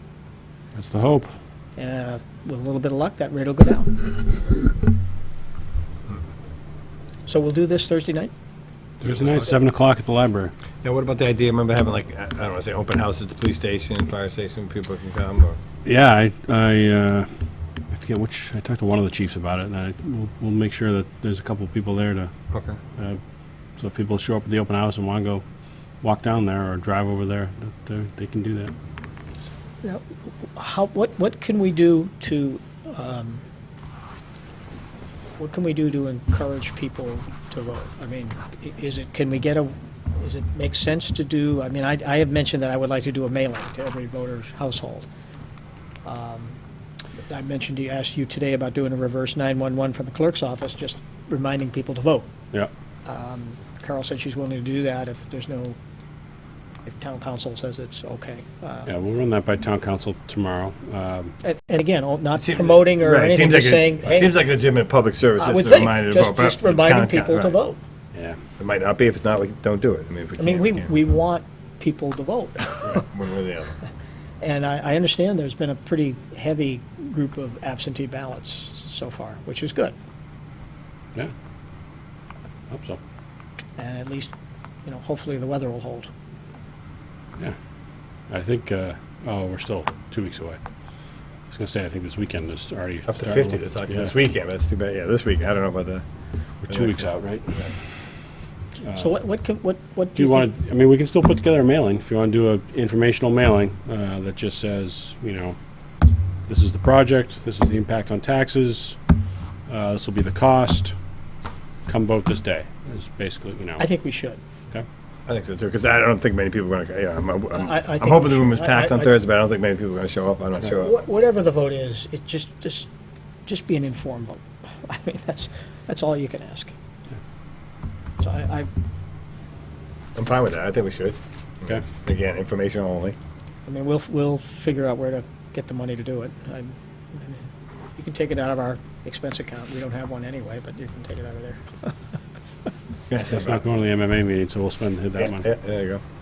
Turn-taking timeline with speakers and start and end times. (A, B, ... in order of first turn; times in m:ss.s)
0:00.7-0:01.3 A
0:01.8-0:03.9 B
0:07.2-0:08.3 B
0:09.0-0:10.5 A
0:10.8-0:15.6 C
0:15.8-0:17.3 A
0:17.9-0:22.3 A
0:22.5-0:22.8 C
0:23.8-0:25.4 A
0:26.0-0:28.7 A
0:30.6-0:33.4 B
0:35.4-0:45.1 B
0:46.0-0:46.6 B
0:47.3-0:52.3 B
0:53.0-0:55.8 B
0:56.8-0:58.9 B
0:58.8-1:01.3 A
1:01.4-1:04.3 B
1:02.4-1:07.6 C
1:05.4-1:07.8 B
1:08.6-1:11.0 C
1:10.4-1:13.0 B
1:12.8-1:13.7 C
1:14.4-1:19.9 B
1:22.7-1:23.0 A
1:23.8-1:24.3 B
1:24.8-1:26.1 B
1:28.3-1:30.6 A
1:31.5-1:34.1 A
1:33.1-1:36.0 C
1:36.6-1:37.5 A
1:36.7-1:37.7 C
1:38.8-1:39.1 A
1:39.0-1:40.5 B
1:40.2-1:45.6 A
1:46.5-1:49.0 A
1:49.7-1:50.9 A
1:51.9-1:53.8 A
1:53.8-1:54.4 B
1:55.3-2:00.9 C
1:57.5-1:59.1 B
2:00.7-2:02.9 B
2:03.4-2:06.7 B
2:08.2-2:08.7 B
2:10.1-2:13.2 C
2:13.6-2:21.9 B
2:23.1-2:23.6 C
2:23.3-2:25.4 A
2:25.2-2:26.0 C